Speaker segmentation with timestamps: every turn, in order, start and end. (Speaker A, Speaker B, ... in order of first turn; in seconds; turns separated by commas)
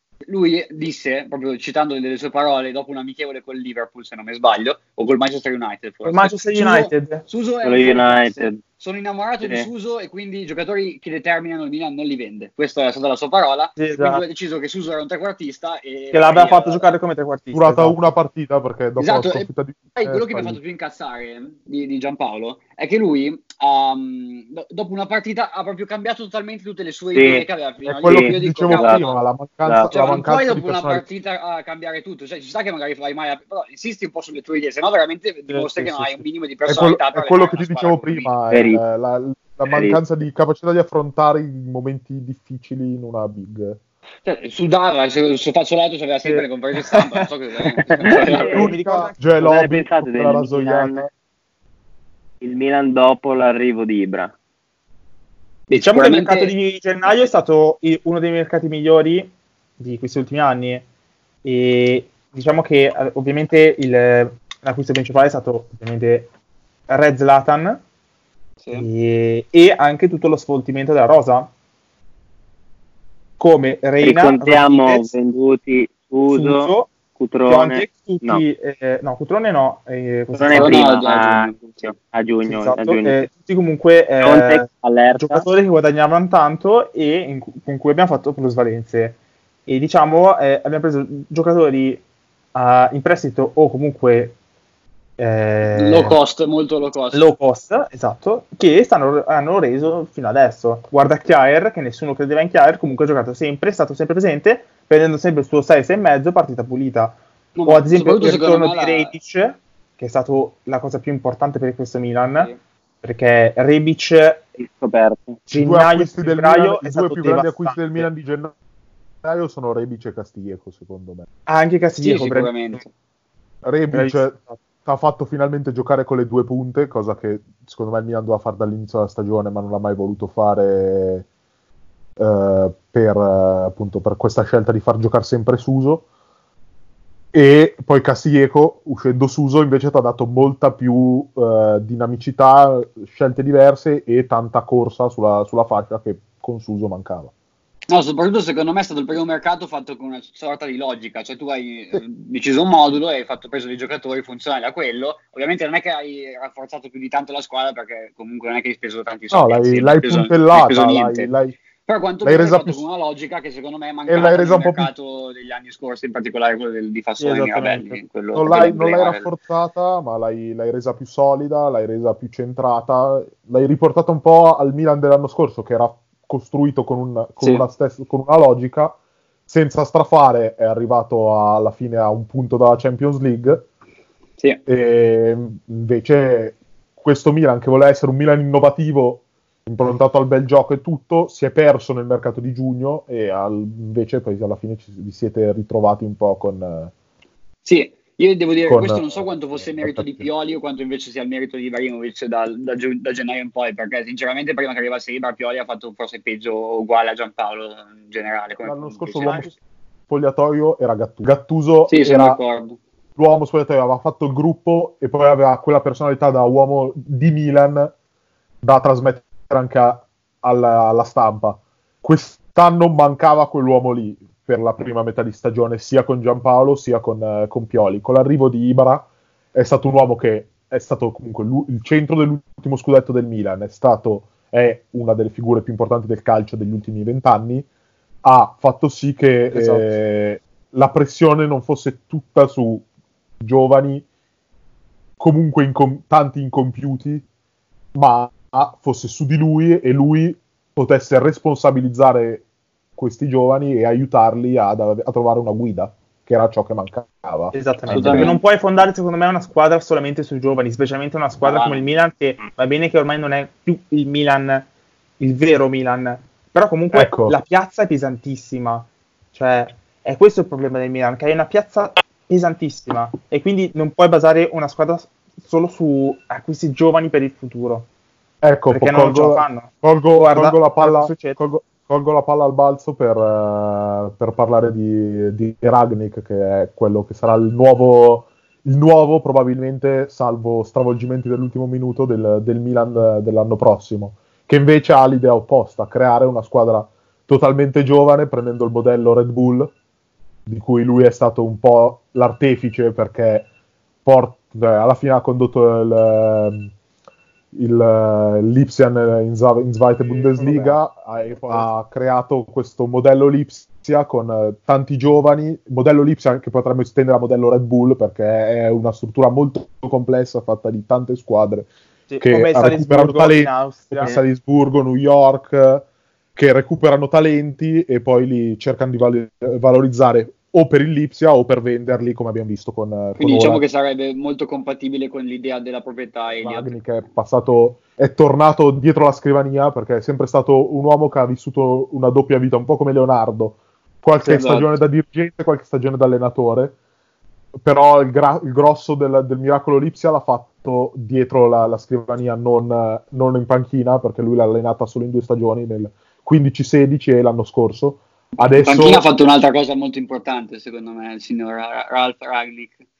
Speaker A: 0.3-16.9, Speaker B: 6.0-7.2, Speaker C: 7.6-8.6, Speaker C: 9.4-9.7, Speaker B: 13.8-14.2, Speaker B: 16.1-18.1, Speaker D: 17.5-20.6, Speaker A: 19.0-19.5, Speaker A: 20.0-29.2, Speaker C: 27.1-29.0, Speaker D: 27.9-31.0, Speaker C: 29.6-29.9, Speaker A: 29.9-38.3, Speaker B: 35.8-36.2, Speaker D: 36.7-43.8, Speaker C: 38.5-38.8, Speaker C: 39.7-40.0, Speaker A: 44.2-48.7, Speaker C: 47.8-48.7, Speaker B: 48.1-49.3, Speaker D: 48.2-51.1, Speaker C: 49.4-51.0, Speaker C: 52.4-54.3, Speaker A: 55.7-56.5, Speaker B: 55.8-60.8, Speaker B: 61.4-66.3, Speaker B: 66.9-67.8, Speaker A: 68.6-68.9, Speaker B: 68.7-71.5, Speaker B: 73.4-75.1, Speaker C: 74.0-78.4, Speaker B: 76.3-80.8, Speaker C: 80.3-83.2, Speaker A: 80.5-81.9, Speaker B: 82.4-92.0, Speaker C: 84.2-85.4, Speaker B: 92.5-94.3, Speaker B: 95.2-96.2, Speaker A: 95.7-97.3, Speaker B: 97.1-112.5, Speaker A: 107.5-109.1, Speaker B: 113.0-114.4, Speaker C: 114.6-115.4, Speaker B: 115.5-118.0, Speaker D: 115.5-118.5, Speaker D: 119.2-121.3, Speaker B: 121.5-122.8, Speaker A: 122.0-122.9, Speaker D: 123.6-131.2, Speaker B: 123.9-124.6, Speaker D: 132.2-136.0, Speaker D: 137.3-147.3, Speaker A: 147.9-161.3, Speaker D: 159.3-161.6, Speaker A: 161.9-169.3, Speaker D: 162.2-162.8, Speaker D: 164.1-164.9, Speaker B: 167.2-168.0, Speaker D: 168.3-178.9, Speaker D: 179.5-183.6, Speaker D: 184.7-196.9, Speaker A: 197.6-209.4, Speaker D: 198.6-200.3, Speaker D: 208.6-209.6, Speaker B: 209.2-209.6, Speaker D: 210.1-212.4, Speaker A: 211.9-212.8, Speaker D: 213.2-217.9, Speaker D: 218.6-237.7, Speaker D: 238.2-242.8, Speaker B: 239.5-240.0, Speaker D: 243.4-244.0, Speaker D: 245.2-247.2, Speaker D: 247.9-252.4, Speaker D: 253.0-258.4, Speaker B: 257.5-264.7, Speaker A: 257.9-258.4, Speaker A: 261.4-261.9, Speaker B: 265.2-277.9, Speaker D: 266.9-267.4, Speaker D: 278.4-299.7, Speaker B: 278.7-281.4, Speaker D: 300.5-303.5, Speaker D: 304.0-306.7, Speaker D: 307.5-321.7, Speaker B: 310.0-310.8, Speaker B: 311.4-311.7, Speaker B: 322.1-324.2, Speaker D: 322.2-333.6, Speaker A: 333.2-336.8, Speaker D: 336.4-346.8, Speaker A: 344.2-344.8, Speaker D: 347.6-359.1, Speaker A: 358.6-362.7